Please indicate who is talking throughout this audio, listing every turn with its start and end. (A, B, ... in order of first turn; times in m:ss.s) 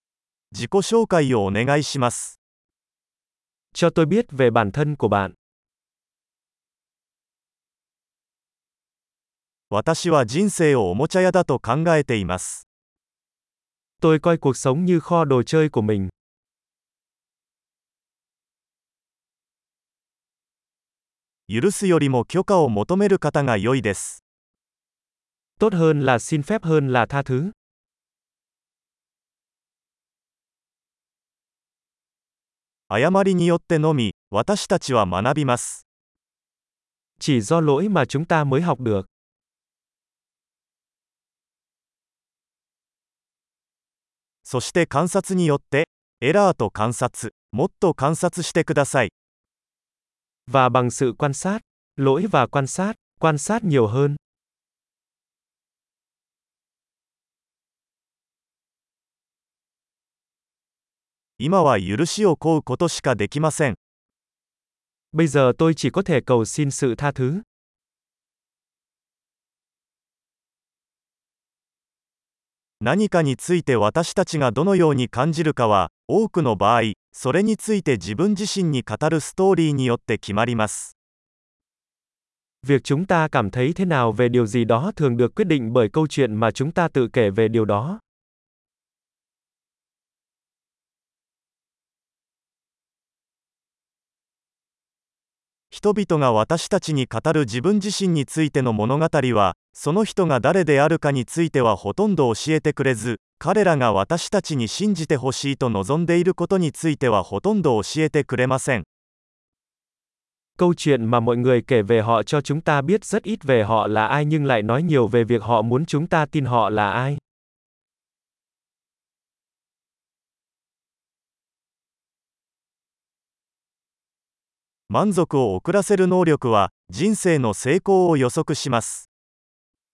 0:00.5-0:02.4 A
0:03.7-0:05.4 B
0:09.7-0:12.6 A
0:14.0-0:16.1 B
0:21.5-0:24.2 A
0:25.6-0:27.5 B
0:32.9-0:35.8 A
0:37.2-0:39.1 B
0:44.4-0:49.1 A
0:50.5-0:54.2 B
1:01.4-1:03.8 A
1:05.1-1:07.4 B
1:12.8-1:20.9 A
1:22.6-1:28.0 B
1:35.7-1:48.9 A
1:50.6-1:57.2 B
2:04.9-2:09.1 A